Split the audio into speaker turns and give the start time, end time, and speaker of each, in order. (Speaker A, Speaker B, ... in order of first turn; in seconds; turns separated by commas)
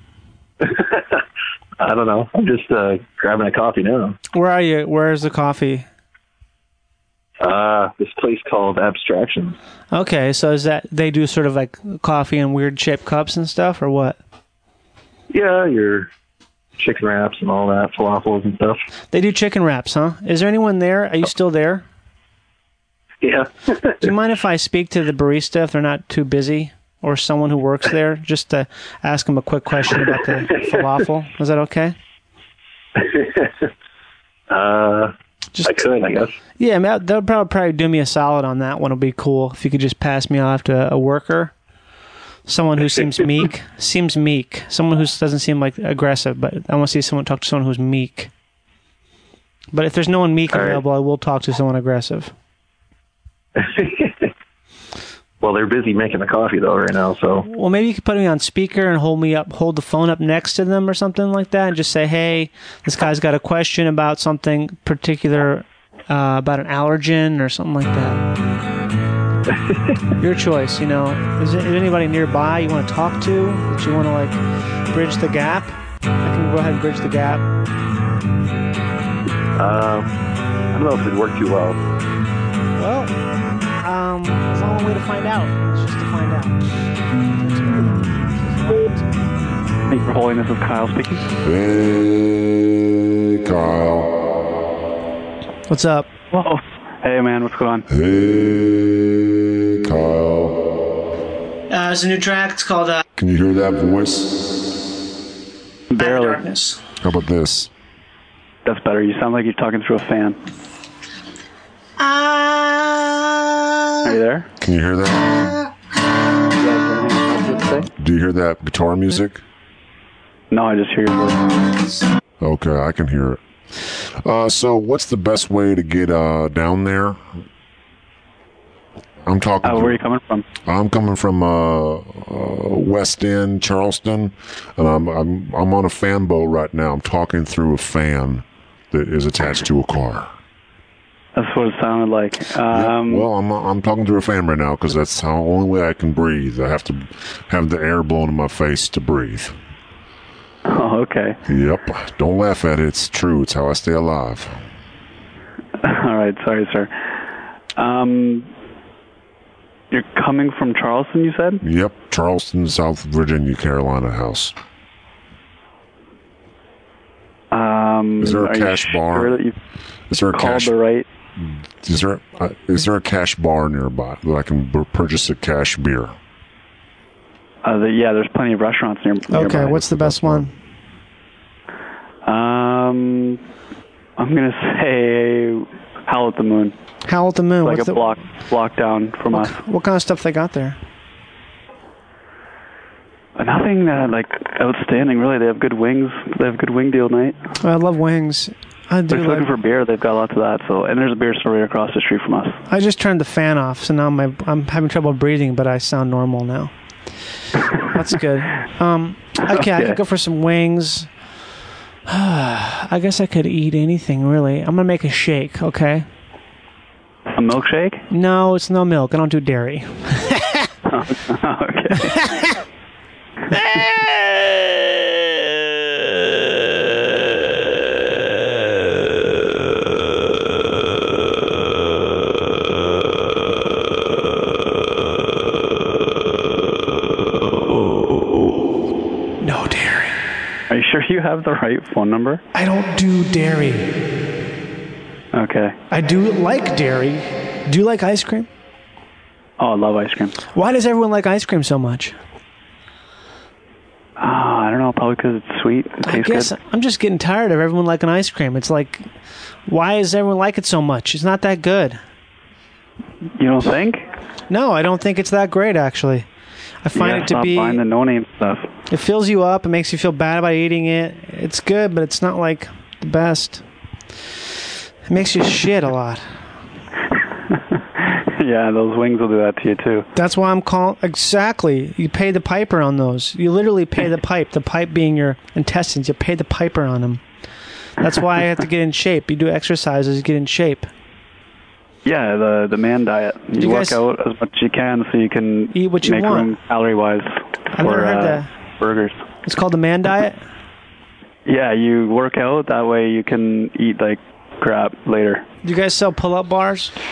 Speaker A: 0.6-1.2, Speaker A: 1.8-4.2, Speaker B: 4.3-5.9, Speaker A: 7.4-9.6, Speaker B: 9.9-14.2, Speaker A: 15.3-16.1, Speaker A: 16.8-18.8, Speaker B: 19.1-21.9, Speaker A: 23.2-24.0, Speaker B: 24.0-32.0, Speaker A: 33.0-33.7, Speaker A: 34.5-35.1, Speaker B: 35.6-35.8, Speaker A: 35.6-36.3, Speaker B: 36.6-41.5, Speaker B: 42.5-48.3, Speaker B: 49.7-52.3, Speaker A: 50.5-50.8, Speaker A: 53.6-54.3, Speaker A: 55.4-57.5, Speaker B: 57.5-68.3, Speaker A: 69.5-70.0, Speaker B: 70.2-74.4, Speaker B: 74.9-77.5, Speaker A: 79.6-80.1, Speaker A: 80.7-81.8, Speaker B: 82.8-83.1, Speaker B: 83.8-86.6, Speaker B: 87.3-89.1, Speaker C: 89.9-91.3, Speaker D: 91.4-94.3, Speaker B: 95.7-96.1, Speaker C: 96.3-97.8, Speaker D: 97.9-100.6, Speaker B: 101.7-103.0, Speaker D: 103.2-104.4, Speaker C: 105.9-106.5, Speaker B: 106.0-106.8, Speaker D: 107.0-107.7, Speaker C: 108.7-110.4, Speaker B: 112.0-114.2, Speaker C: 114.0-114.5, Speaker D: 114.6-115.5, Speaker C: 116.6-117.9, Speaker D: 118.0-119.4, Speaker C: 120.5-121.6, Speaker D: 122.4-127.2, Speaker D: 129.2-130.0, Speaker C: 129.6-130.5, Speaker D: 130.7-140.3, Speaker C: 141.4-143.3, Speaker D: 142.7-149.6, Speaker C: 150.7-151.4, Speaker D: 151.5-154.6, Speaker C: 155.8-156.9, Speaker C: 157.8-158.5, Speaker C: 159.9-161.6, Speaker D: 161.6-164.6, Speaker C: 167.5-169.6, Speaker D: 168.2-169.4, Speaker D: 170.1-170.7, Speaker C: 170.3-171.1, Speaker D: 171.4-176.2, Speaker C: 177.7-179.8, Speaker B: 179.3-180.5, Speaker D: 179.4-180.5, Speaker C: 182.3-183.4, Speaker C: 184.2-186.7, Speaker B: 187.1-188.1, Speaker C: 187.6-189.5, Speaker B: 189.3-190.8, Speaker C: 193.4-197.4, Speaker B: 197.6-199.5, Speaker C: 199.1-202.6, Speaker B: 202.7-206.7, Speaker B: 207.8-211.1, Speaker C: 209.5-210.0, Speaker B: 212.1-216.1, Speaker C: 217.3-218.1, Speaker B: 218.1-220.7, Speaker C: 220.9-222.3, Speaker B: 223.5-225.0, Speaker B: 239.4-240.2, Speaker C: 240.7-242.4, Speaker B: 242.5-244.0, Speaker C: 245.3-245.8, Speaker B: 245.9-248.5, Speaker C: 249.6-250.3, Speaker B: 250.6-252.2, Speaker C: 254.2-256.5, Speaker B: 256.0-259.1, Speaker B: 259.7-262.0, Speaker C: 263.4-264.1, Speaker B: 264.5-266.3, Speaker B: 266.8-267.8, Speaker C: 266.9-268.7, Speaker B: 268.9-273.6, Speaker B: 275.1-276.4, Speaker C: 278.0-280.1, Speaker B: 280.1-287.2, Speaker B: 288.0-290.9, Speaker C: 292.1-299.2, Speaker B: 293.6-294.0, Speaker B: 295.7-296.5, Speaker B: 297.7-298.5, Speaker B: 299.4-300.4, Speaker C: 301.5-305.4, Speaker B: 305.6-306.9